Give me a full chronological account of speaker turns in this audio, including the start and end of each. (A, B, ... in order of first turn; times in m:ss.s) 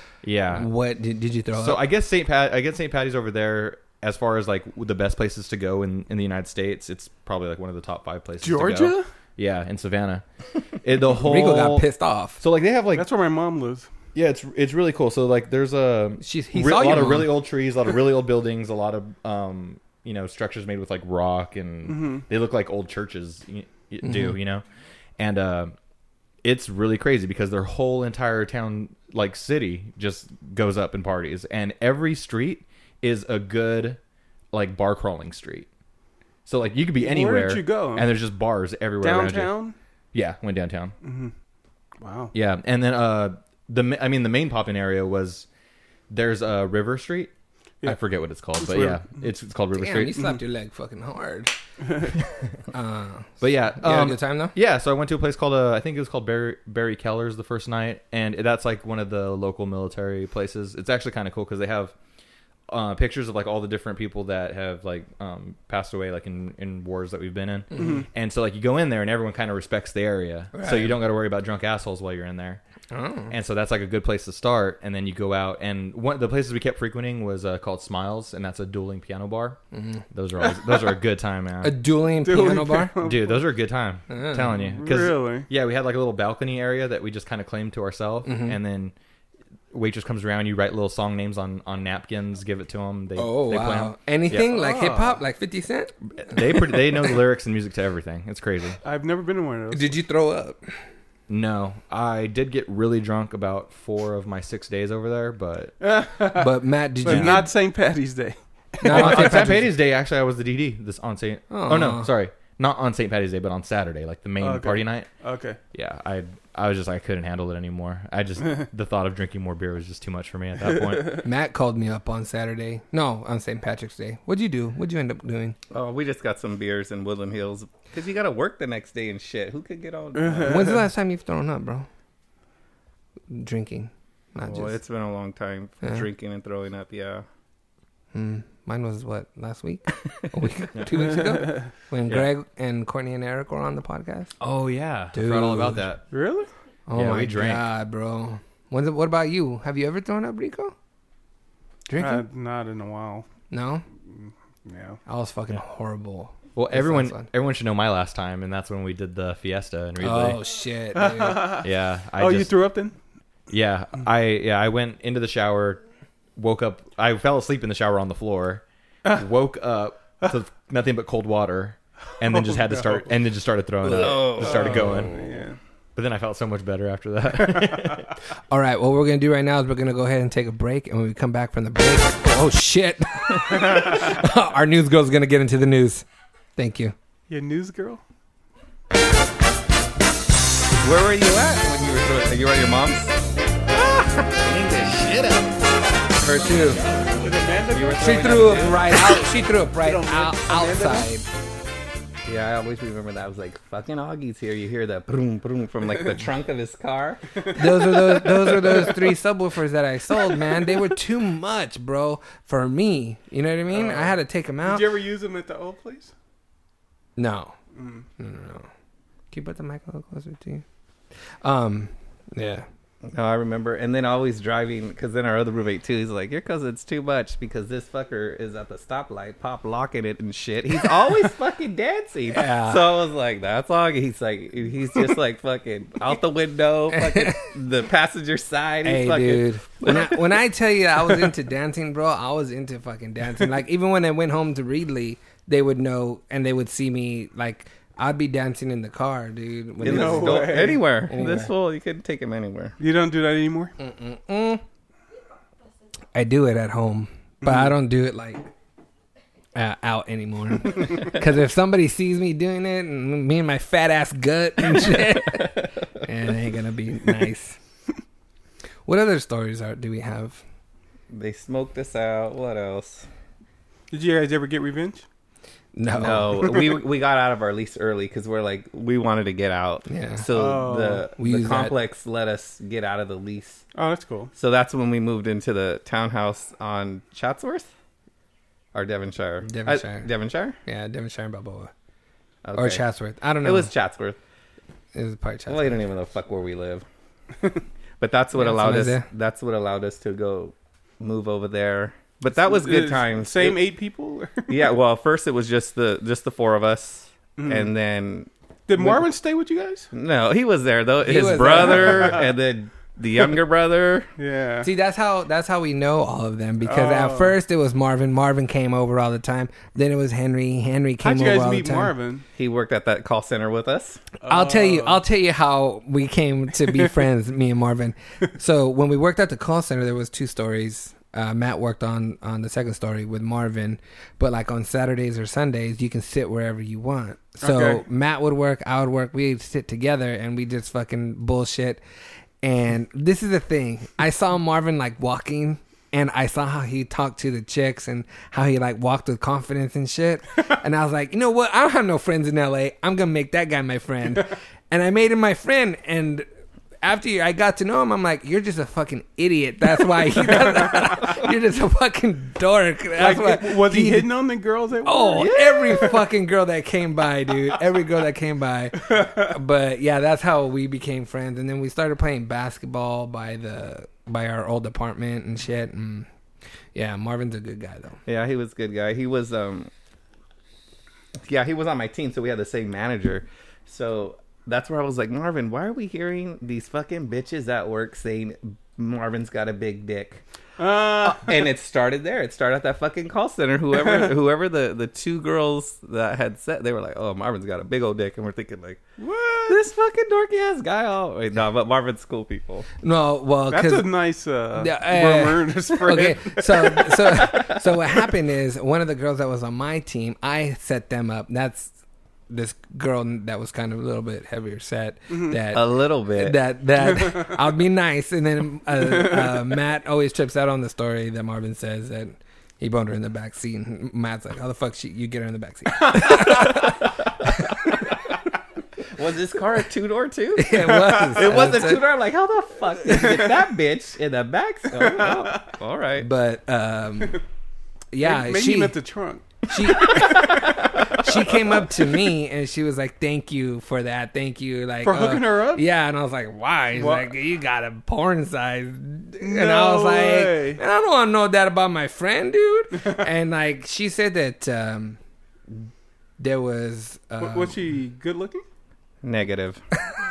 0:00.2-0:00.7 A
0:00.5-0:01.8 B
0:01.5-0:10.2 A
0:08.4-0:09.1 C
0:10.8-0:11.8 A
0:11.2-0:12.4 B
0:12.4-0:13.1 A
0:12.9-0:13.9 C
0:14.1-0:24.6 A
0:16.2-0:17.4 B
0:21.9-0:22.2 C
0:24.0-0:24.4 B
0:25.2-0:25.7 A
0:26.4-0:34.0 A
0:34.5-0:35.7 A
0:36.4-0:39.5 A
0:37.0-0:38.1 C
0:39.0-0:39.7 C
0:40.1-0:41.0 A
0:41.0-0:41.3 C
0:42.0-0:42.3 C
0:42.3-0:45.4 A
0:46.1-0:47.3 A
0:47.8-0:50.2 A
0:48.6-0:49.0 C
0:49.7-0:51.5 B
0:51.8-0:52.1 C
0:52.7-0:54.5 B
0:53.4-1:01.9 A
1:02.7-1:12.6 A
1:07.8-1:08.0 B
1:07.8-1:08.0 C
1:10.5-1:11.0 B
1:12.9-1:13.3 B
1:13.3-1:19.6 A
1:19.7-1:20.0 B
1:20.1-1:21.7 A
1:21.6-1:23.0 B
1:22.2-1:23.4 C
1:23.0-1:28.9 A
1:24.1-1:24.6 B
1:24.5-1:25.5 C
1:28.2-1:28.6 B
1:29.7-1:34.5 A
1:33.2-1:36.4 B
1:34.5-1:35.2 C
1:36.2-1:38.8 A
1:38.8-1:40.0 C
1:39.7-1:40.6 B
1:41.3-1:45.8 A
1:45.8-1:46.5 C
1:46.3-1:47.5 B
1:47.0-1:49.5 C
1:47.0-1:47.4 A
1:48.8-1:49.7 B
1:48.9-1:55.1 A
1:51.5-1:52.1 B
1:54.4-1:55.6 C
1:55.7-2:01.2 A
2:01.2-2:05.6 B
2:05.7-2:10.7 D
2:10.1-2:10.8 C
2:10.4-2:11.9 B
2:13.3-2:14.8 B
2:14.4-2:17.2 D
2:18.1-2:24.3 B
2:21.0-2:21.7 C
2:24.4-2:26.1 A
2:25.1-2:25.8 B
2:26.1-2:26.5 C
2:26.9-2:30.7 B
2:26.9-2:27.6 A
2:31.9-2:32.2 B
2:32.0-2:33.2 C
2:33.5-2:33.8 B
2:34.1-2:35.0 C
2:35.0-2:37.3 B
2:36.6-2:40.4 A
2:40.0-2:41.6 B
2:40.9-2:42.9 C
2:41.6-2:42.6 A
2:43.5-2:45.8 A
2:46.4-2:55.2 A
2:52.2-2:53.1 C
2:53.8-2:55.1 D
2:54.4-2:55.6 C
2:56.0-2:58.1 A
2:58.5-3:06.0 B
3:06.6-3:06.9 B
3:07.3-3:08.0 C
3:10.8-3:13.2 D
3:14.2-3:15.5 D
3:16.2-3:16.8 B
3:17.2-3:19.2 C
3:17.7-3:19.0 D
3:18.0-3:21.2 B
3:19.8-3:21.1 C
3:22.2-3:27.9 D
3:27.5-3:34.9 B
3:33.7-3:36.1 C
3:37.2-3:37.5 B
3:37.8-3:38.0 C
3:38.2-3:38.7 B
3:39.3-3:40.6 B
3:41.4-3:42.6 B
3:43.0-4:00.3 D
3:52.3-3:52.8 B
3:56.9-3:57.4 B
3:58.8-4:11.5 B
4:09.8-4:10.9 C
4:09.8-4:12.8 D
4:12.8-4:13.7 C
4:13.8-4:14.6 B
4:16.1-4:18.5 B
4:17.4-4:17.7 C
4:19.5-4:27.6 B
4:28.8-4:30.4 B
4:31.1-4:33.0 D
4:33.9-4:35.0 C
4:35.7-4:36.4 B
4:36.0-4:43.6 D
4:39.9-4:40.3 B
4:40.3-4:41.1 C
4:41.2-4:41.8 B
4:43.7-4:44.3 C
4:44.4-4:47.7 D
4:48.7-4:50.6 D
4:49.4-4:50.1 B
4:50.6-4:51.7 B
4:52.4-4:52.8 D
4:52.5-4:53.7 B
4:53.4-4:54.2 D
4:54.9-4:55.8 B
4:55.5-4:56.8 D
4:58.0-5:03.6 D
4:58.4-4:59.0 B
5:02.3-5:04.6 C
5:04.5-5:09.1 D
5:07.4-5:07.7 C
5:08.7-5:09.9 C
5:09.9-5:14.1 D
5:11.0-5:12.2 B
5:11.5-5:12.3 C
5:14.2-5:14.7 C
5:14.6-5:21.9 B
5:16.6-5:17.4 C
5:21.0-5:22.2 C
5:22.4-5:24.0 D
5:24.2-5:25.0 C
5:24.2-5:41.8 B
5:37.4-5:37.8 C
5:42.4-5:56.2 B
5:56.8-6:04.1 B
6:00.6-6:00.9 C
6:03.0-6:05.9 C
6:04.8-6:16.1 B
6:08.9-6:09.2 C
6:16.7-6:18.0 B
6:18.0-6:19.7 D
6:21.2-6:30.2 D
6:30.6-6:31.4 C
6:31.0-6:38.8 D
6:33.8-6:34.1 C
6:39.0-6:39.6 C
6:39.5-6:42.7 D
6:42.8-6:43.9 B
6:43.5-6:47.1 C
6:44.6-6:51.7 B
6:52.3-7:07.8 B
6:55.5-6:56.4 D
6:56.8-6:57.3 C
6:58.8-6:59.4 C
7:08.9-7:16.1 D
7:10.4-7:11.8 B
7:11.0-7:11.4 C
7:14.8-7:15.4 C
7:16.0-7:17.2 B
7:17.9-7:18.8 B
7:18.0-7:21.0 C
7:19.5-7:35.0 B
7:24.8-7:25.6 C
7:26.7-7:27.1 C
7:29.2-7:30.6 C
7:36.2-7:37.6 B
7:37.2-7:38.4 C
7:39.0-7:39.6 D